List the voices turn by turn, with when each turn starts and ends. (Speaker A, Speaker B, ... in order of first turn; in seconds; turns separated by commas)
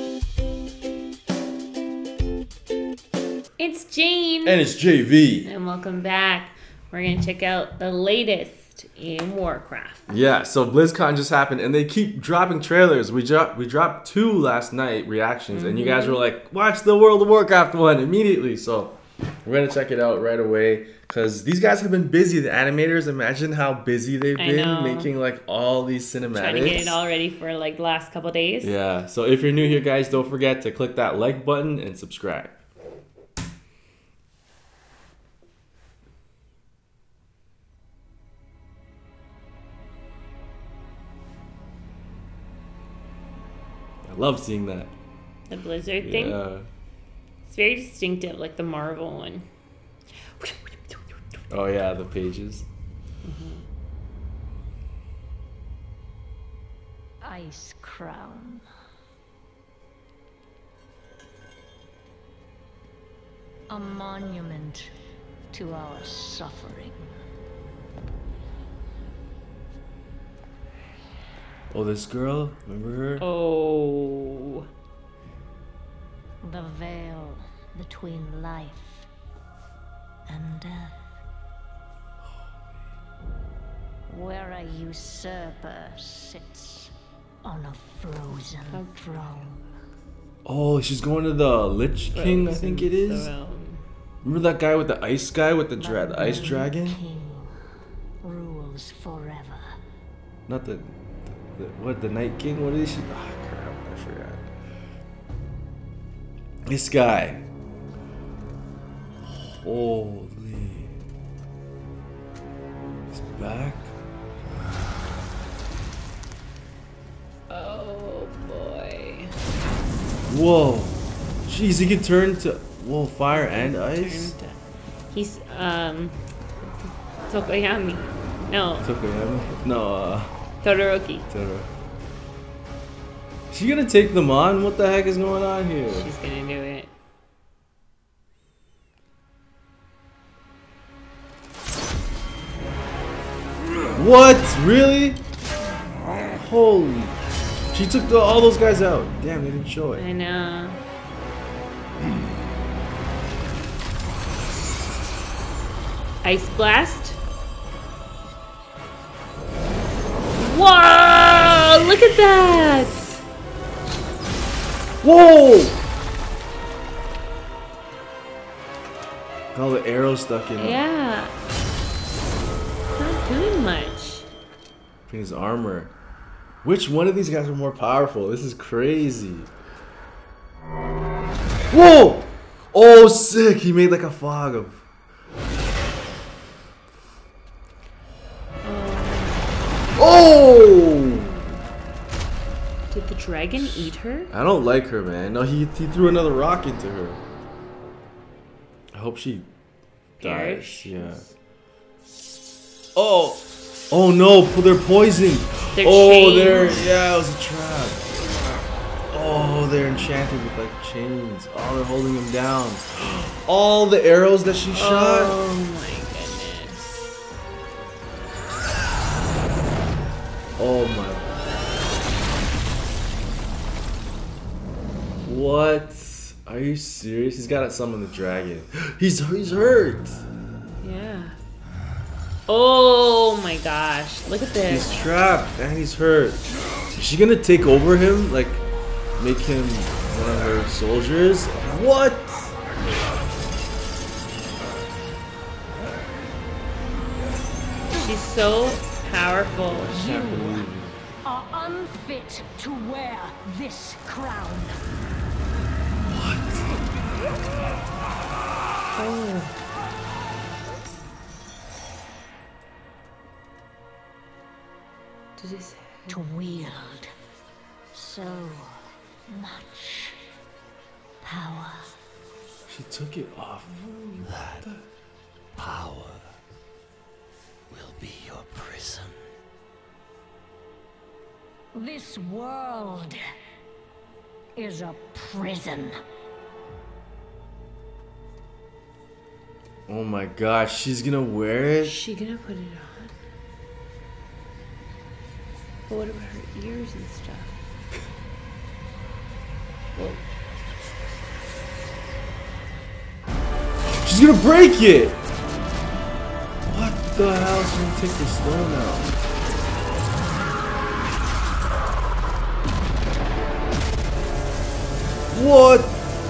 Speaker A: 3.6-4.6, Speaker B: 4.4-5.5, Speaker A: 5.4-10.0, Speaker B: 10.1-27.0, Speaker A: 15.5-16.2, Speaker A: 24.4-25.1, Speaker A: 26.3-28.7, Speaker B: 28.6-32.6, Speaker B: 44.0-44.9, Speaker A: 45.5-46.4, Speaker B: 46.0-46.7, Speaker A: 47.5-49.5, Speaker A: 50.4-51.0, Speaker B: 51.5-52.6, Speaker A: 53.2-53.6, Speaker C: 57.2-58.6, Speaker C: 63.7-64.9, Speaker C: 65.5-67.0, Speaker B: 71.7-73.2, Speaker A: 73.2-74.6, Speaker C: 76.4-79.0, Speaker C: 80.3-80.9, Speaker C: 84.1-86.9, Speaker C: 87.4-89.6, Speaker A: 88.7-89.1, Speaker B: 90.5-93.3, Speaker A: 92.1-93.8, Speaker B: 94.2-97.0, Speaker C: 95.8-97.5, Speaker A: 96.2-96.6, Speaker C: 98.2-99.6, Speaker B: 100.5-104.4, Speaker B: 106.7-107.4, Speaker B: 109.2-110.9, Speaker B: 113.1-113.9, Speaker A: 117.5-119.3, Speaker B: 120.3-124.3, Speaker A: 123.3-124.5, Speaker A: 125.1-128.9, Speaker B: 128.8-130.3, Speaker A: 130.6-131.2, Speaker B: 131.3-131.7, Speaker B: 133.5-136.1, Speaker A: 135.9-136.9, Speaker B: 143.9-145.2, Speaker B: 146.3-147.2, Speaker B: 147.7-150.0, Speaker A: 149.9-150.8, Speaker A: 156.2-157.2, Speaker A: 160.4-163.2, Speaker B: 165.0-165.8, Speaker B: 169.5-170.8, Speaker A: 170.6-171.3, Speaker A: 172.9-174.2, Speaker B: 175.1-175.9, Speaker B: 176.6-179.5, Speaker B: 181.7-184.8, Speaker A: 188.6-189.5, Speaker B: 189.9-191.4, Speaker A: 192.9-194.3, Speaker B: 194.3-197.2, Speaker B: 198.9-199.5, Speaker A: 200.2-200.9, Speaker B: 200.2-201.3, Speaker B: 202.9-208.1, Speaker A: 205.7-206.9, Speaker B: 209.1-215.4, Speaker A: 214.7-217.0, Speaker B: 220.6-221.3, Speaker B: 225.2-230.2, Speaker A: 230.8-231.4, Speaker A: 232.5-235.1, Speaker B: 234.6-236.4, Speaker B: 236.9-238.6, Speaker B: 239.2-242.5, Speaker A: 248.0-250.0, Speaker B: 249.6-251.0, Speaker C: 249.9-250.7, Speaker C: 251.2-254.7, Speaker B: 256.1-256.8, Speaker A: 258.9-259.5, Speaker A: 265.4-266.2, Speaker C: 266.1-267.1, Speaker C: 267.9-268.8, Speaker C: 269.3-270.2, Speaker C: 271.2-271.9, Speaker B: 272.7-274.8, Speaker D: 275.6-276.2, Speaker D: 277.7-279.1, Speaker C: 281.7-283.2, Speaker C: 284.6-286.0, Speaker B: 289.9-292.0, Speaker A: 291.8-293.1, Speaker A: 295.9-297.5, Speaker B: 304.0-305.2, Speaker B: 306.6-309.1, Speaker B: 315.3-316.0